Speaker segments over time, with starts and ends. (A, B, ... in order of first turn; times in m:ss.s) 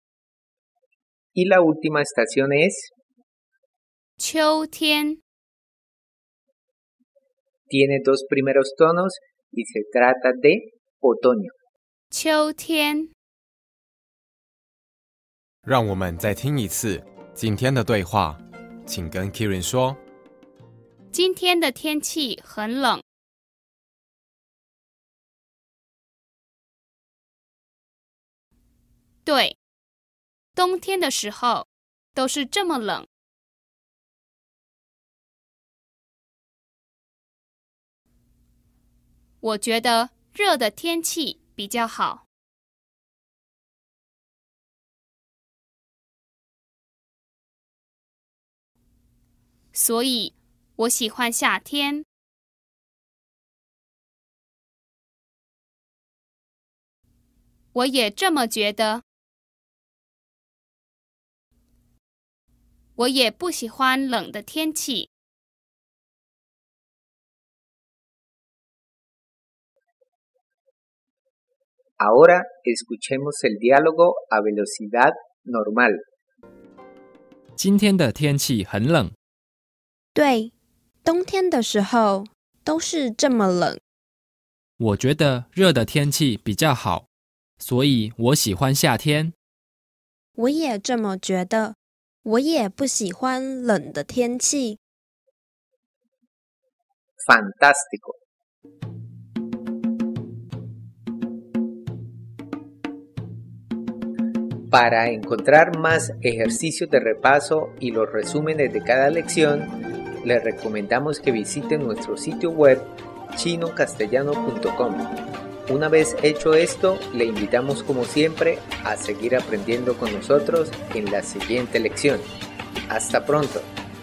0:01.3-0:02.9 A
0:04.2-0:05.2 B
0:07.7-0:11.5 A
0:12.1-0:13.1 B
0:15.6-0:20.0 C
0:21.1-0:23.0 B
0:29.2-0:29.6 B
0:30.5-0:33.1 B
0:39.4-0:42.2 B
0:49.7-0:52.0 B
0:57.7-0:59.0 B
1:03.0-1:05.1 B
1:12.0-1:16.0 A
1:17.6-1:19.1 D
1:20.1-1:20.5 E
1:21.0-1:23.8 E
1:24.8-1:27.1 D
1:27.6-1:29.3 D
1:30.4-1:34.8 E
1:37.2-1:38.2 A
1:44.7-1:55.1 A
1:55.7-2:02.3 A
2:02.9-2:03.7 A